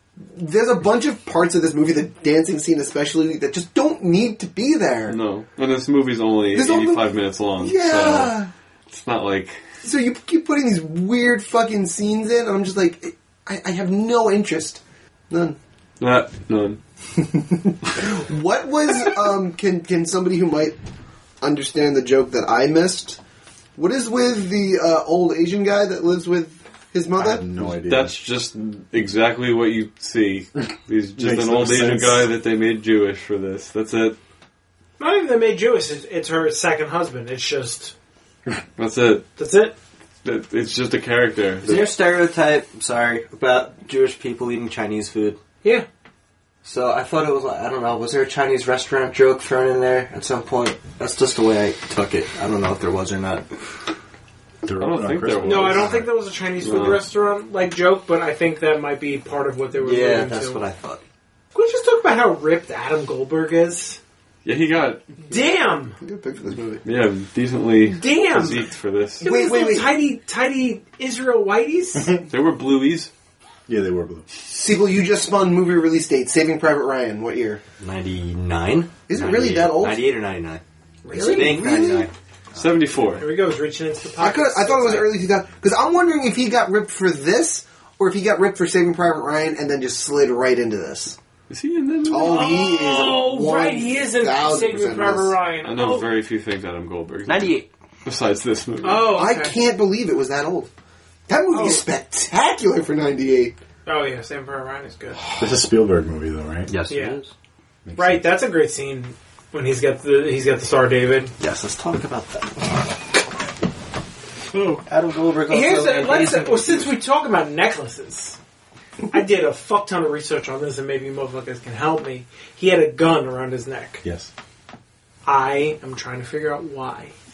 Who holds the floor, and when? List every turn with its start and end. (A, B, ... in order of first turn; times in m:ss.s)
0:00.2-0:05.2 A
0:05.1-0:08.4 B
0:06.5-0:08.5 A
0:08.9-0:09.6 B
0:09.8-0:15.6 A
0:16.0-0:16.8 B
0:17.3-0:20.8 A
0:21.4-0:23.2 A
0:23.8-0:27.4 A
0:27.2-0:28.2 C
0:27.7-0:34.2 B
0:31.2-0:32.3 C
0:35.0-0:37.9 D
0:38.8-0:39.3 B
0:39.4-0:39.7 D
0:40.2-0:41.7 B
0:41.6-0:45.4 E
0:46.6-0:53.5 E
0:54.6-0:56.1 C
0:54.8-0:56.0 B
0:55.4-1:00.6 D
0:56.6-0:57.0 B
0:59.8-1:01.0 E
1:01.5-1:04.0 D
1:04.4-1:05.1 B
1:05.2-1:06.0 D
1:06.0-1:06.8 A
1:06.8-1:09.3 B
1:07.8-1:08.7 D
1:09.2-1:10.0 A
1:09.2-1:12.2 D
1:12.3-1:13.1 B
1:13.7-1:14.3 C
1:14.4-1:17.6 A
1:17.8-1:20.6 E
1:19.1-1:20.0 A
1:21.0-1:22.1 A
1:21.1-1:21.6 D
1:21.2-1:22.7 E
1:22.5-1:23.2 B
1:23.2-1:25.1 D
1:24.2-1:31.2 A
1:31.5-1:32.8 B
1:32.0-1:35.4 A
1:32.2-1:36.1 D
1:35.6-1:39.1 B
1:37.2-1:37.7 E
1:38.8-1:39.6 D
1:39.1-1:40.7 A
1:41.3-1:43.6 A
1:41.5-1:41.8 D
1:43.8-1:45.2 D
1:45.4-1:46.7 C
1:46.7-1:47.3 E
1:46.9-1:47.2 D
1:47.8-1:48.3 C
1:48.0-1:51.3 D
1:51.4-1:52.9 E
1:54.8-1:56.9 E
1:55.5-1:58.4 D
1:59.1-2:04.0 D
2:04.0-2:04.3 C
2:05.2-2:07.1 D